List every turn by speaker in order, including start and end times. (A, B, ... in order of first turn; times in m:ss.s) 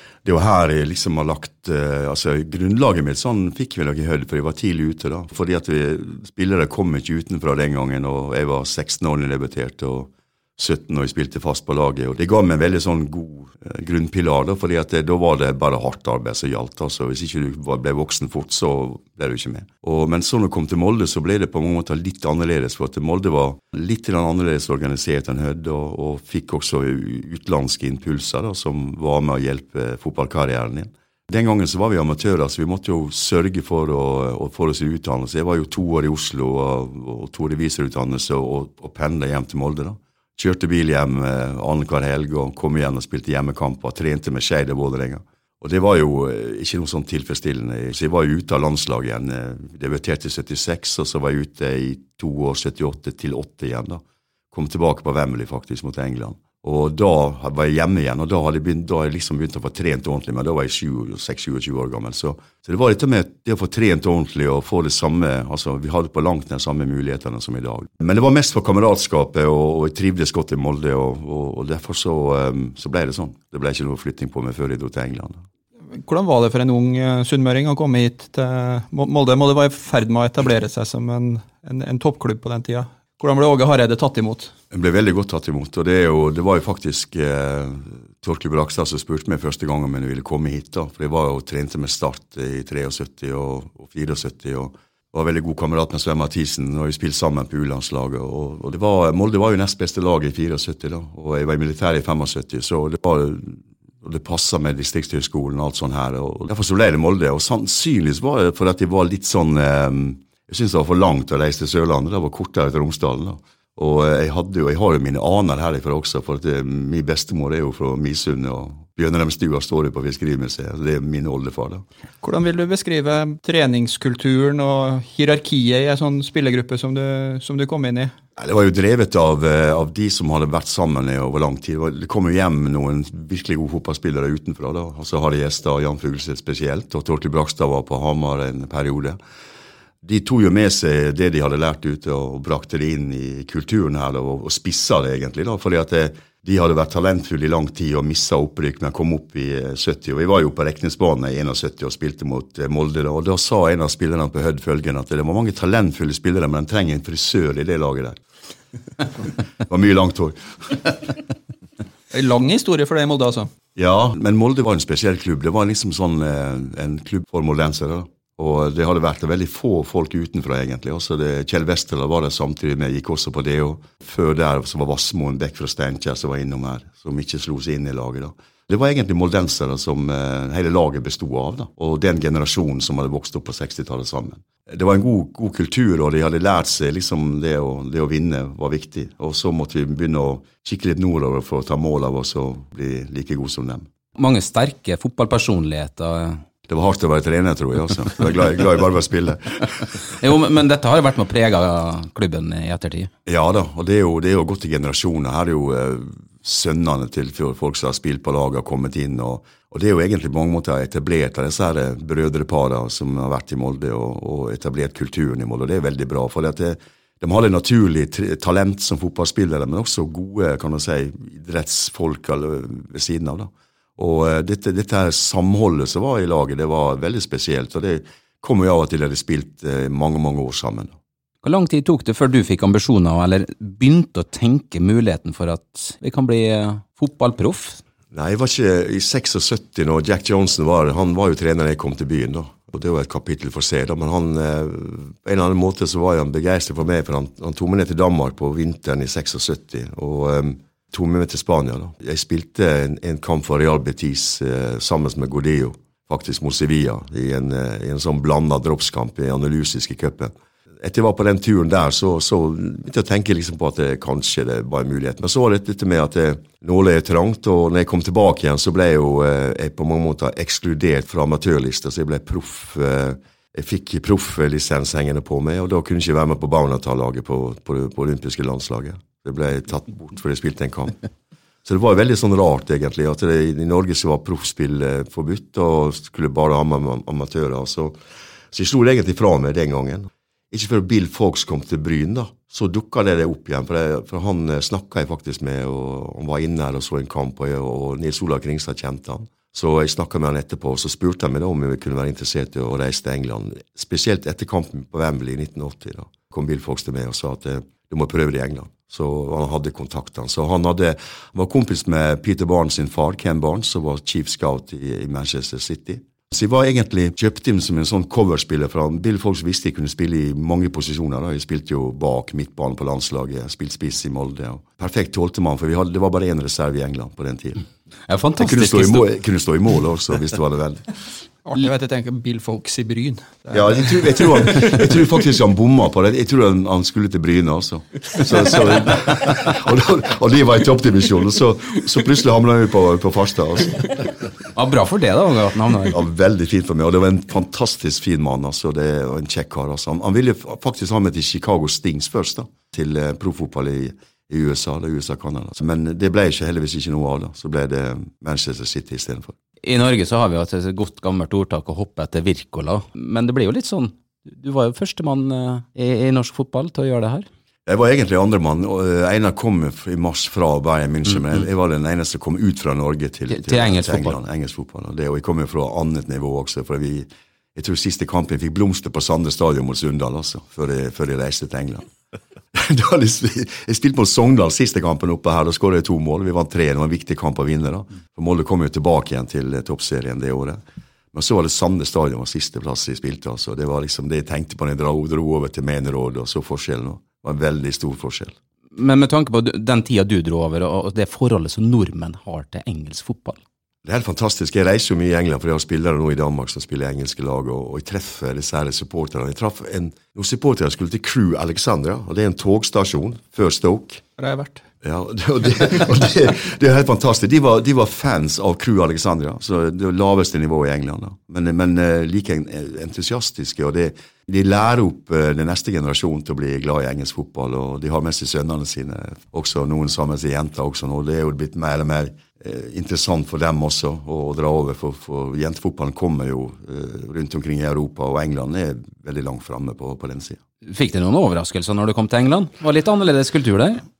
0:00.2-1:15.4 A
1:15.9-1:24.5 B
1:24.7-2:01.8 A
2:02.2-2:08.1 B
2:08.4-2:19.2 A
2:20.0-2:38.2 A
2:39.6-2:41.1 A
2:42.1-2:43.5 B
2:43.8-3:13.8 A
3:14.2-3:16.4 C
3:16.7-3:19.9 A
3:20.1-3:23.1 C
3:23.2-3:51.0 A
3:51.4-3:57.8 C
3:58.1-4:41.0 A
4:41.6-4:48.0 A
4:48.5-5:27.6 A
5:28.1-5:29.1 C
5:28.4-5:30.8 A
5:31.4-5:34.6 B
5:33.5-5:44.0 A
5:44.5-5:46.0 C
5:45.9-5:59.3 A
5:59.6-6:07.2 C
6:07.6-6:21.9 A
6:13.3-6:14.2 C
6:22.5-6:30.6 A
6:31.1-6:38.3 A
6:38.7-6:43.4 C
6:43.8-6:54.0 A
6:54.2-6:54.6 B
6:54.8-7:20.4 A
7:20.6-7:23.8 C